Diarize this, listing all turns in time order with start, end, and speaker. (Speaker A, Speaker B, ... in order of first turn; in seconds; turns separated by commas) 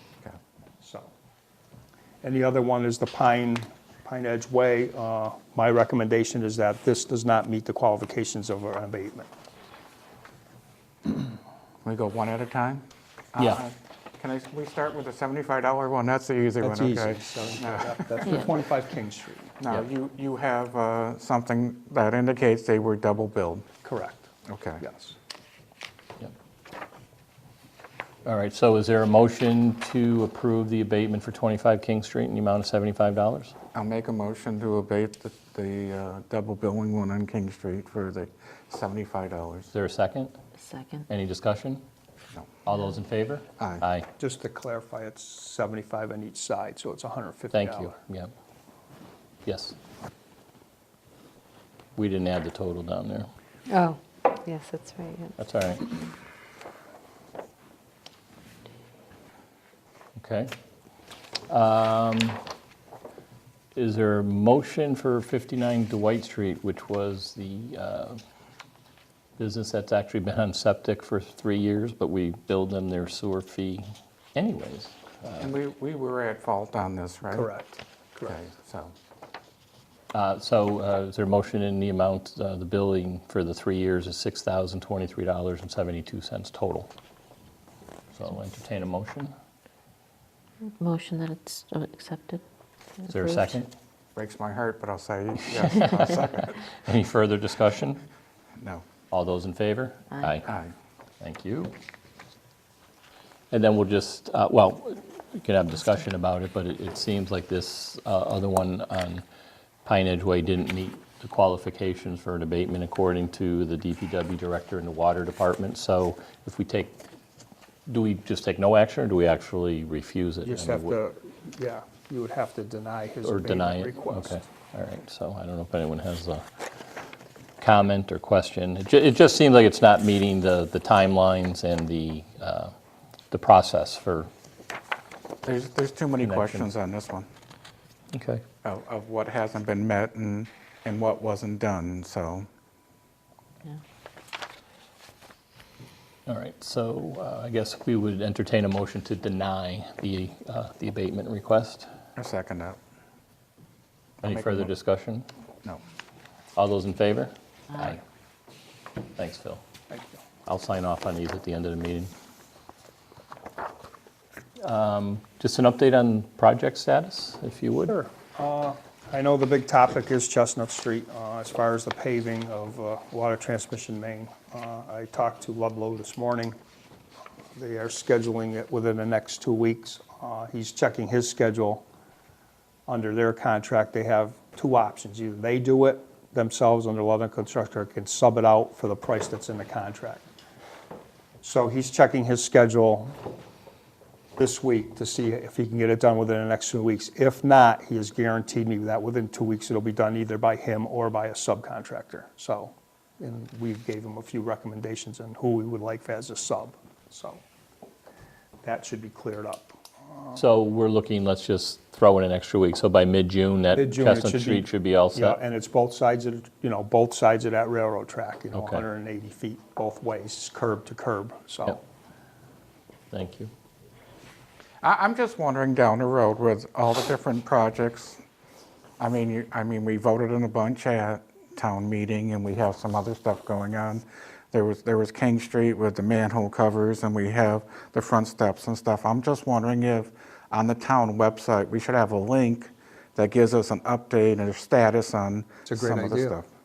Speaker A: 0.8-1.1, Speaker A: 2.2-9.3, Speaker B: 11.8-18.4, Speaker A: 16.6-19.6, Speaker B: 19.6-23.7, Speaker A: 23.8-24.3, Speaker B: 24.5-24.8, Speaker A: 24.8-25.1, Speaker C: 28.2-33.5, Speaker B: 33.8-39.7, Speaker C: 39.7-40.3, Speaker D: 40.6-41.0, Speaker C: 41.1-41.8, Speaker C: 42.7-44.1, Speaker B: 43.6-43.9, Speaker A: 44.2-48.0, Speaker C: 47.5-48.3, Speaker C: 49.5-49.8, Speaker C: 52.0-53.3, Speaker D: 53.7-55.4, Speaker C: 55.4-56.1, Speaker C: 60.2-60.5, Speaker C: 61.5-62.4, Speaker C: 63.8-68.2, Speaker C: 69.4-75.5, Speaker B: 75.4-77.5, Speaker A: 77.3-78.3, Speaker B: 78.2-78.9, Speaker C: 80.1-86.9, Speaker C: 88.2-89.3, Speaker D: 90.7-92.4, Speaker D: 93.0-93.6, Speaker C: 93.1-93.7, Speaker B: 94.2-96.6, Speaker C: 95.6-98.0, Speaker B: 98.6-98.9, Speaker C: 99.1-100.5, Speaker B: 100.5-100.7, Speaker C: 101.2-101.7, Speaker C: 103.5-109.2, Speaker C: 109.8-117.0, Speaker C: 117.9-121.0, Speaker A: 120.4-124.4, Speaker C: 123.2-126.5, Speaker C: 127.6-132.7, Speaker C: 133.3-134.3, Speaker B: 135.4-137.3, Speaker C: 136.2-136.7, Speaker C: 138.1-138.4, Speaker B: 138.6-142.5, Speaker C: 146.3-151.9, Speaker B: 152.2-152.8, Speaker B: 154.2-154.7, Speaker C: 154.2-155.3, Speaker C: 156.6-158.0, Speaker C: 159.2-159.6, Speaker C: 160.5-162.1, Speaker C: 164.6-167.9, Speaker A: 167.9-176.6, Speaker A: 177.6-181.8, Speaker A: 182.9-190.3, Speaker A: 191.4-193.2, Speaker A: 194.4-207.4, Speaker A: 208.6-210.3, Speaker C: 210.3-215.4, Speaker A: 213.7-221.8, Speaker C: 218.5-218.8, Speaker C: 223.1-223.5, Speaker B: 224.8-228.2, Speaker B: 229.0-246.5, Speaker A: 245.7-246.4